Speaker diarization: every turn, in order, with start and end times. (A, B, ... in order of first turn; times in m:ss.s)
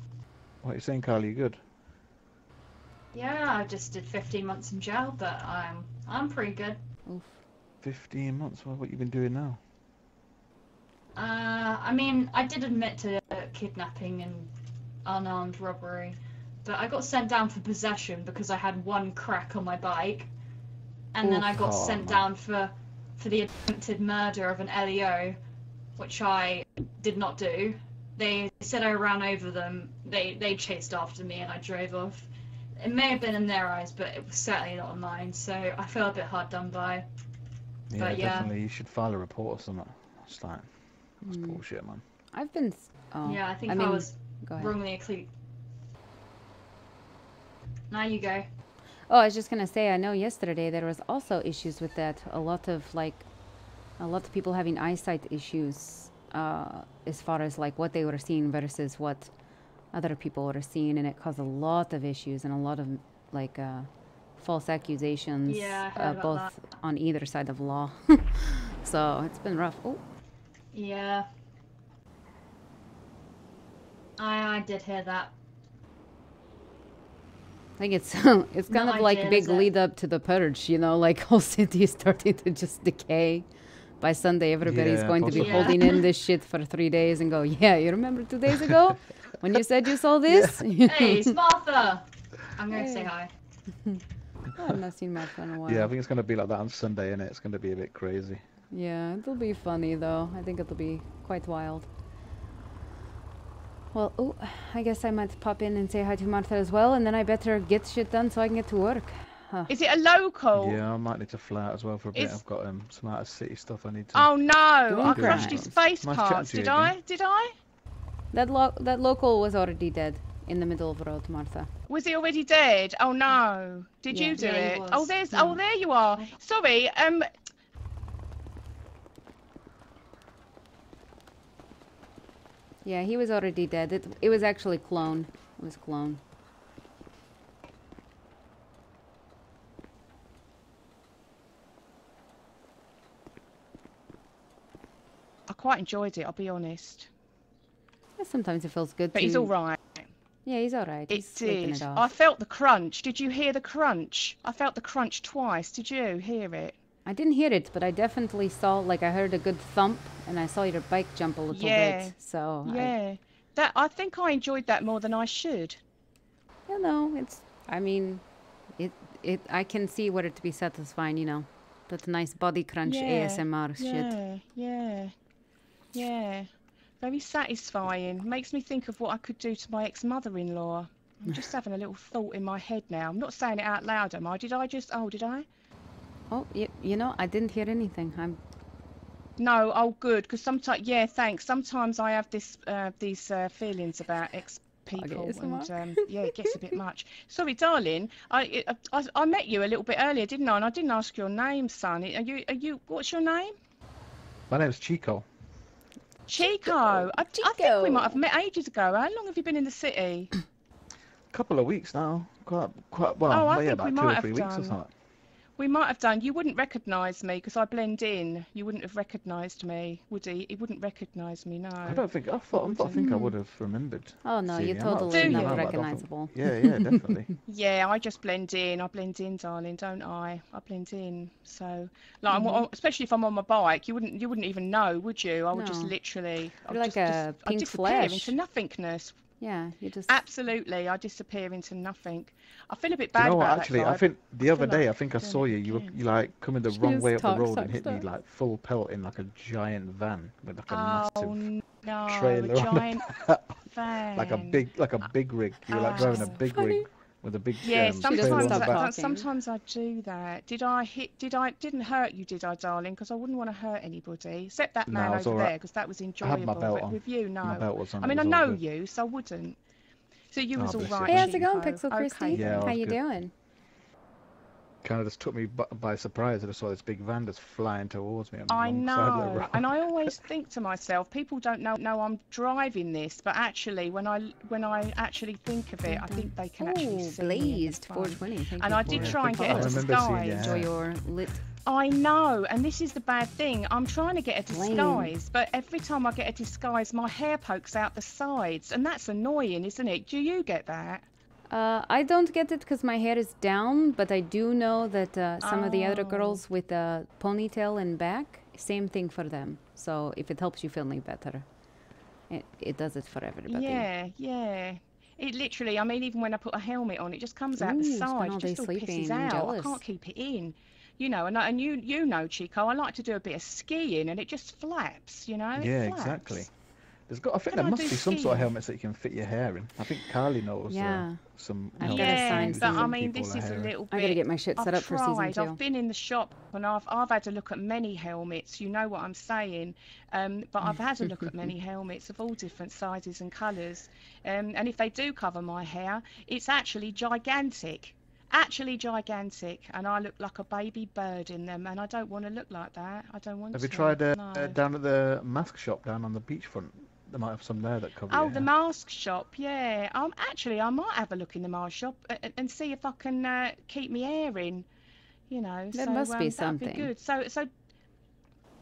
0:00.6-0:01.6 A
0:03.1-0:06.8 B
0:07.0-0:07.4 C
0:07.8-0:09.6 A
0:11.1-0:14.5 B
0:15.0-0:20.3 B
0:21.1-0:25.4 B
0:21.2-0:22.3 A
0:26.0-0:37.0 B
0:37.9-0:42.0 A
0:38.0-0:38.5 B
0:41.2-0:41.6 C
0:42.3-0:44.8 C
0:43.2-0:45.3 B
0:47.9-0:48.5 B
0:49.1-0:53.2 C
0:54.0-0:59.3 C
0:59.9-1:10.0 C
1:05.5-1:06.5 B
1:10.7-1:11.3 B
1:14.2-1:15.3 B
1:17.8-1:23.5 C
1:18.7-1:19.7 B
1:24.0-1:31.3 C
1:24.6-1:26.0 A
1:25.3-1:26.0 B
1:30.3-1:30.6 A
1:30.8-1:33.3 B
1:32.7-1:33.1 C
1:34.6-1:35.9 C
1:35.6-1:38.4 A
1:38.7-1:41.9 C
1:43.9-1:49.7 C
1:49.7-1:50.8 D
1:50.5-1:54.3 A
1:52.1-1:52.4 D
1:54.1-1:57.5 D
1:54.9-1:55.8 C
1:55.0-1:57.0 A
1:58.3-2:01.7 C
2:01.9-2:07.3 D
2:04.1-2:04.5 C
2:04.4-2:05.2 B
2:05.3-2:05.6 C
2:12.8-2:16.2 C
2:25.5-2:27.1 D
2:28.2-2:29.5 C
2:29.1-2:30.1 D
2:30.4-2:32.1 C
2:31.1-2:36.8 D
2:37.0-2:42.9 C
2:41.5-2:45.8 D
2:46.7-2:48.2 C
2:48.8-2:54.1 C
2:52.8-2:55.1 D
2:55.9-3:05.5 D
3:06.3-3:08.4 C
3:09.4-3:23.6 D
3:15.0-3:16.5 C
3:24.5-3:25.2 A
3:26.3-3:30.3 D
3:26.4-3:27.1 A
3:27.3-3:28.2 C
3:31.3-3:34.9 A
3:33.3-3:34.8 D
3:35.6-3:43.0 D
3:41.8-3:47.3 A
3:42.9-3:43.3 C
3:44.2-3:46.4 C
3:45.1-3:45.7 D
3:47.4-3:59.2 D
3:52.3-3:52.7 C
3:55.5-3:55.9 C
3:56.7-3:58.4 C
3:59.4-4:00.2 C
4:00.1-4:06.0 D
4:03.1-4:11.4 A
4:06.7-4:08.0 C
4:10.7-4:13.1 D
4:12.1-4:13.6 A
4:13.6-4:14.6 D
4:14.1-4:18.8 A
4:15.7-4:16.4 D
4:15.9-4:16.8 C
4:17.6-4:29.6 D
4:18.0-4:19.2 C
4:24.9-4:25.6 A
4:26.2-4:28.6 A
4:30.3-4:32.7 D
4:30.6-4:31.4 A
4:31.0-4:33.3 C
4:32.3-4:33.0 A
4:34.8-4:40.1 A
4:38.5-4:50.6 D
4:45.9-4:51.4 C
4:48.9-4:50.7 A
4:51.6-5:01.1 D
4:54.5-4:55.1 C
5:01.5-5:11.4 C
5:05.4-5:06.4 D
5:12.3-5:13.9 C
5:13.5-5:26.5 D
5:17.6-5:19.8 C
5:25.5-5:26.5 A
5:27.1-5:33.7 A
5:27.5-5:28.5 D
5:30.7-5:31.2 C
5:31.8-5:32.9 C
5:31.8-5:54.6 D
5:33.9-5:35.6 C
5:53.5-5:58.5 A
5:58.1-6:04.7 D
6:05.3-6:07.5 D
6:05.7-6:06.9 C